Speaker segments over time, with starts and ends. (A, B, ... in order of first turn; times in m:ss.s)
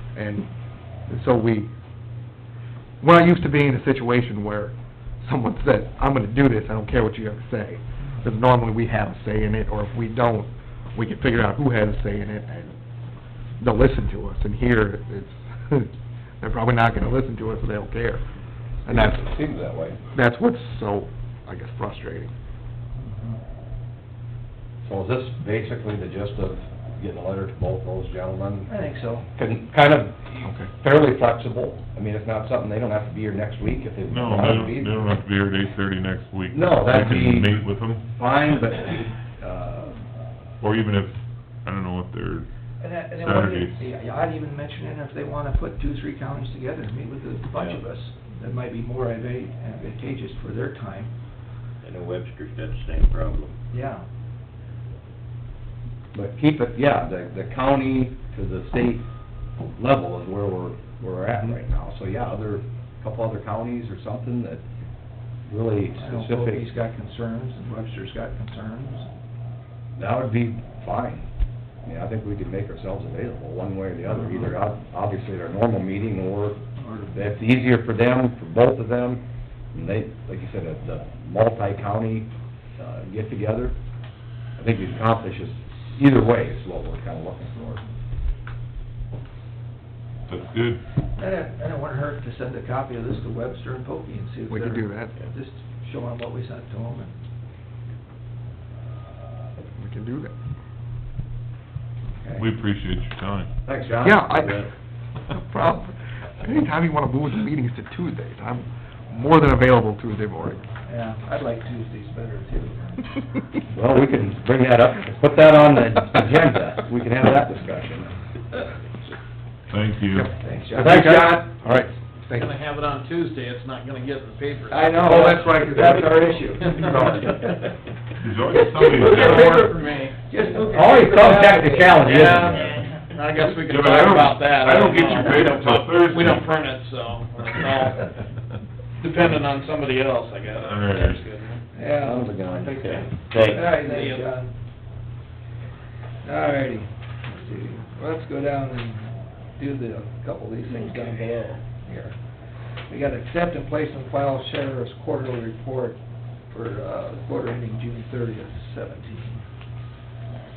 0:00.2-0:00.5 A
0:01.1-0:01.7 A
0:03.0-0:12.7 A
0:13.6-0:18.2 A
0:18.9-0:19.2 A
0:18.9-0:20.0 B
0:20.1-0:22.3 A
0:23.0-0:23.4 C
0:24.8-0:28.7 B
0:28.6-0:29.3 C
0:29.4-0:35.0 B
0:34.1-0:38.0 D
0:36.5-0:37.6 B
0:38.1-0:40.0 B
0:40.6-0:42.5 D
0:42.8-0:51.1 C
0:43.2-0:43.8 D
0:51.8-0:53.6 E
0:53.7-0:54.0 C
0:56.1-0:59.0 B
0:59.8-1:04.6 B
1:05.5-1:06.7 B
1:06.0-1:09.1 C
1:10.0-1:11.2 B
1:11.8-1:23.8 B
1:16.8-1:17.1 C
1:24.6-1:27.8 B
1:30.3-1:30.8 D
1:31.2-1:37.1 C
1:34.5-1:35.1 A
1:39.8-1:40.3 A
1:42.1-1:42.5 C
1:42.4-1:43.5 D
1:43.7-1:44.3 B
1:44.0-1:44.6 A
1:44.3-1:44.7 E
1:45.3-1:50.6 A
1:50.8-1:53.0 C
1:53.7-1:58.1 B
1:59.7-2:00.3 D
2:00.3-2:01.2 C
2:00.7-2:01.8 B
2:00.7-2:02.5 A
2:02.3-2:05.4 F
2:04.7-2:07.7 C
2:05.0-2:07.4 B
2:08.2-2:09.7 D
2:08.5-2:12.1 C
2:09.0-2:10.2 F
2:10.6-2:12.9 B
2:12.0-2:18.1 F
2:13.6-2:16.5 D
2:19.0-2:21.6 F
2:20.6-2:21.3 D
2:21.7-2:24.6 C
2:22.0-2:23.0 B
2:22.8-2:23.9 E
2:23.8-2:24.3 F
2:26.2-2:32.2 C
2:32.9-2:39.4 C